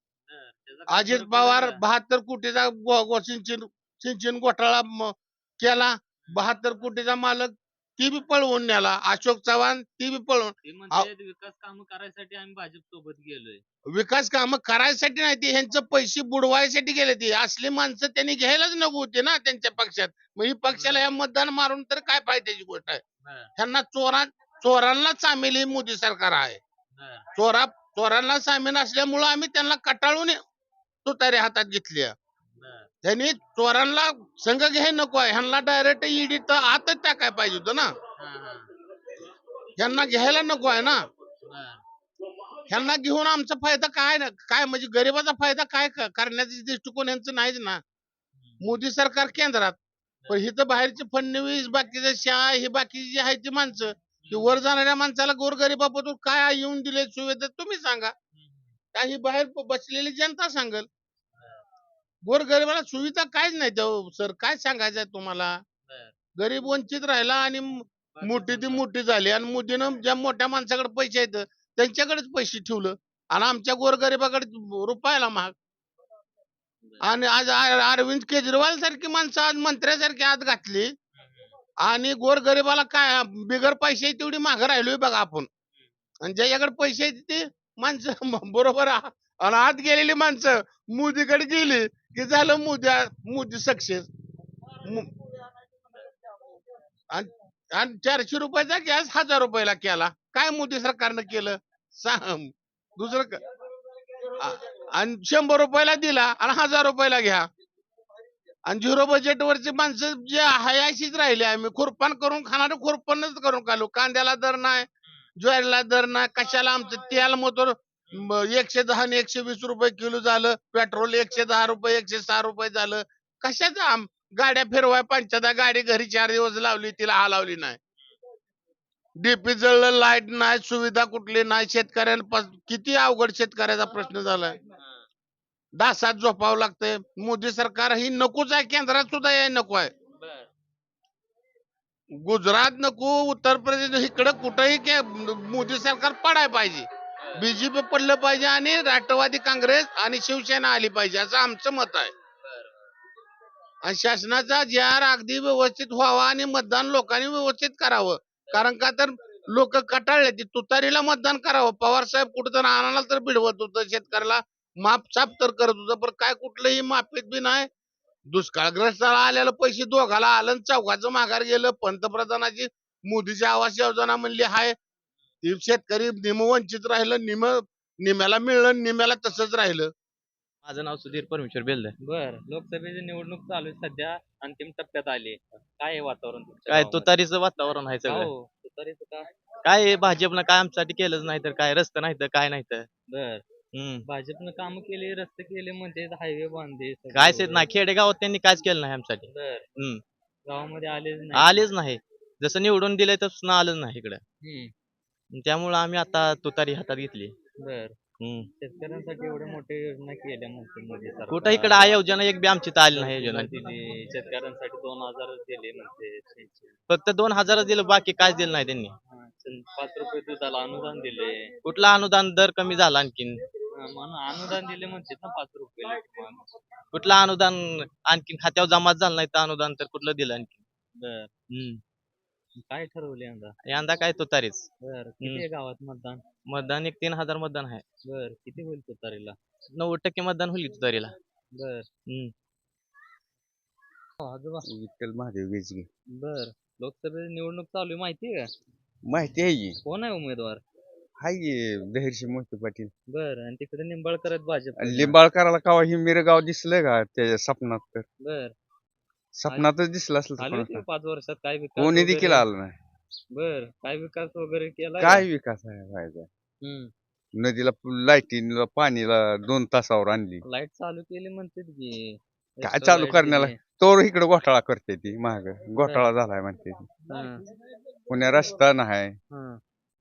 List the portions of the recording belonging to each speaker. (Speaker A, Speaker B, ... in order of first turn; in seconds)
Speaker A: 0.3-1.8, 10.6-13.6, 20.7-21.0, 23.2-23.5, 26.9-27.3, 32.6-32.9, 38.2-38.7, 41.4-41.8, 54.2-54.6, 58.3-58.7, 61.3-61.6, 65.9-66.1, 68.1-68.8, 76.8-77.1, 81.2-81.5, 134.8-135.0, 140.2-140.5, 147.2-147.4, 152.4-152.9, 182.0-187.1, 188.1-189.3, 193.1-193.4, 194.0-197.7, 199.3-199.7, 200.5-201.6, 204.4-204.7, 207.6-208.0, 208.6-212.0, 212.9-216.7, 219.1-221.5, 223.7-226.4, 230.9-231.3, 232.6-233.6, 234.8-236.2, 238.0-239.4, 241.5-241.9, 244.2-244.7, 246.1-248.5, 249.8-250.6, 253.1-255.2, 258.2-258.5, 260.4-262.4, 263.3-265.2, 266.6-266.9, 270.4-273.6, 275.8-276.1, 277.1-277.4, 279.3-279.6
Speaker B: 0.9-11.1, 13.9-23.0, 23.6-26.6, 27.3-30.4, 31.1-32.1, 33.0-37.9, 39.8-41.0, 42.7-47.8, 48.6-49.8, 50.3-58.1, 58.9-60.9, 62.2-65.5, 66.4-75.5, 77.0-80.9, 81.8-85.5, 86.2-94.1, 94.8-95.1, 97.1-103.4, 104.4-107.5, 108.7-114.9, 115.4-127.8, 129.2-134.5, 135.8-139.9, 142.2-152.1, 153.8-167.7, 168.3-174.7, 175.4-179.9
Speaker C: 180.6-181.9, 186.7-188.3, 189.6-192.9, 193.7-194.0, 197.1-200.0, 201.3-204.2, 205.3-207.3, 208.2-208.5, 211.3-213.5, 216.9-218.9, 221.6-223.4, 226.9-230.6, 231.5-231.8, 233.6-234.7, 236.4-237.8, 239.7-241.1, 242.1-242.3
Speaker D: 244.6-245.9, 249.0-249.8, 251.2-252.9, 254.8-258.0, 259.4-260.8, 261.8-262.7, 265.0-266.3, 267.3-270.4, 272.6-276.9, 278.1-279.2